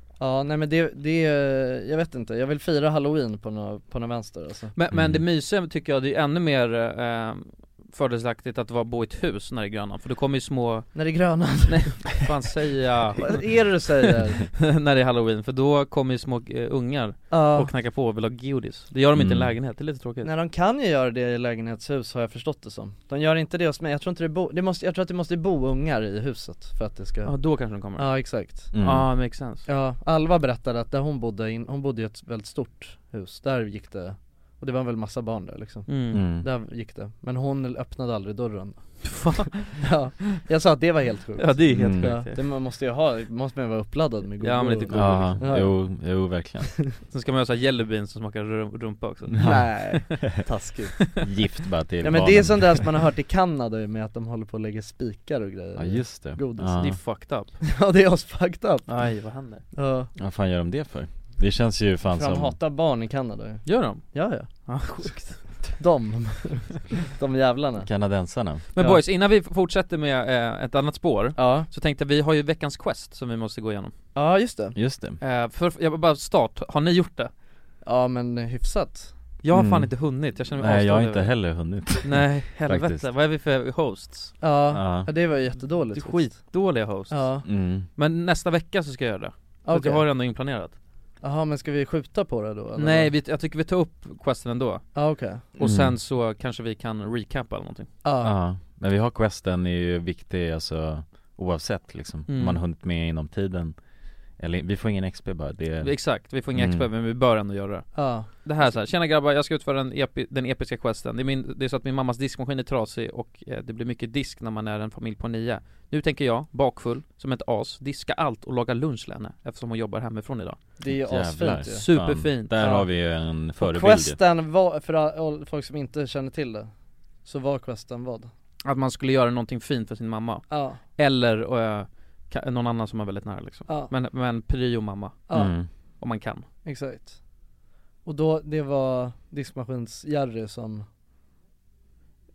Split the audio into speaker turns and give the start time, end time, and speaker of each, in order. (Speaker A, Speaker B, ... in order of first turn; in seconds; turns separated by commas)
Speaker A: 0.2-4.7, Speaker B: 4.7-11.0, Speaker C: 4.9-5.2, Speaker A: 10.9-12.1, Speaker B: 11.7-13.5, Speaker A: 13.2-14.4, Speaker B: 14.5-20.3, Speaker A: 17.3-17.7, Speaker C: 19.1-19.5, Speaker A: 20.2-27.3, Speaker B: 27.2-29.6, Speaker A: 27.9-28.7, Speaker C: 28.7-29.1, Speaker A: 29.6-45.7, Speaker B: 35.9-36.2, Speaker C: 36.1-36.5, Speaker B: 39.0-39.7, Speaker B: 41.4-42.4, Speaker C: 41.7-42.1, Speaker B: 44.4-45.4, Speaker C: 44.9-46.8, Speaker B: 47.1-49.5, Speaker C: 49.3-49.7, Speaker A: 49.4-51.2, Speaker C: 51.2-52.9, Speaker A: 52.0-56.8, Speaker C: 55.8-57.0, Speaker B: 56.7-57.5, Speaker A: 57.6-58.9, Speaker B: 58.9-59.6, Speaker A: 59.7-60.1, Speaker C: 60.2-62.5, Speaker A: 62.1-65.1, Speaker B: 63.6-64.1, Speaker B: 64.7-65.4, Speaker A: 65.8-67.9, Speaker C: 67.8-68.6, Speaker B: 68.7-73.9, Speaker A: 71.3-71.7, Speaker A: 74.1-74.7, Speaker C: 74.7-75.2, Speaker B: 75.2-77.3, Speaker A: 77.8-79.1, Speaker B: 79.4-81.3, Speaker C: 79.5-79.9, Speaker C: 80.6-83.1, Speaker B: 82.0-84.3, Speaker A: 84.4-86.4, Speaker C: 84.7-85.1, Speaker B: 85.9-87.4, Speaker A: 87.1-87.5, Speaker C: 87.4-87.9, Speaker B: 88.0-90.7, Speaker A: 89.6-90.0, Speaker A: 91.2-93.1, Speaker B: 92.8-94.8, Speaker A: 94.9-95.4, Speaker B: 95.5-97.9, Speaker C: 95.6-96.0, Speaker A: 98.0-98.3, Speaker C: 98.2-103.7, Speaker B: 102.3-102.6, Speaker C: 104.4-105.9, Speaker B: 105.8-120.6, Speaker C: 106.5-106.8, Speaker A: 107.9-108.3, Speaker A: 120.8-121.8, Speaker C: 120.9-124.2, Speaker B: 121.7-122.6, Speaker A: 122.6-122.9, Speaker A: 123.6-126.7, Speaker A: 127.2-128.3, Speaker B: 128.6-135.3, Speaker A: 130.5-130.8, Speaker A: 133.7-133.9, Speaker A: 135.3-135.5, Speaker C: 135.3-135.7, Speaker B: 136.0-136.4, Speaker A: 136.6-137.2, Speaker A: 138.0-140.8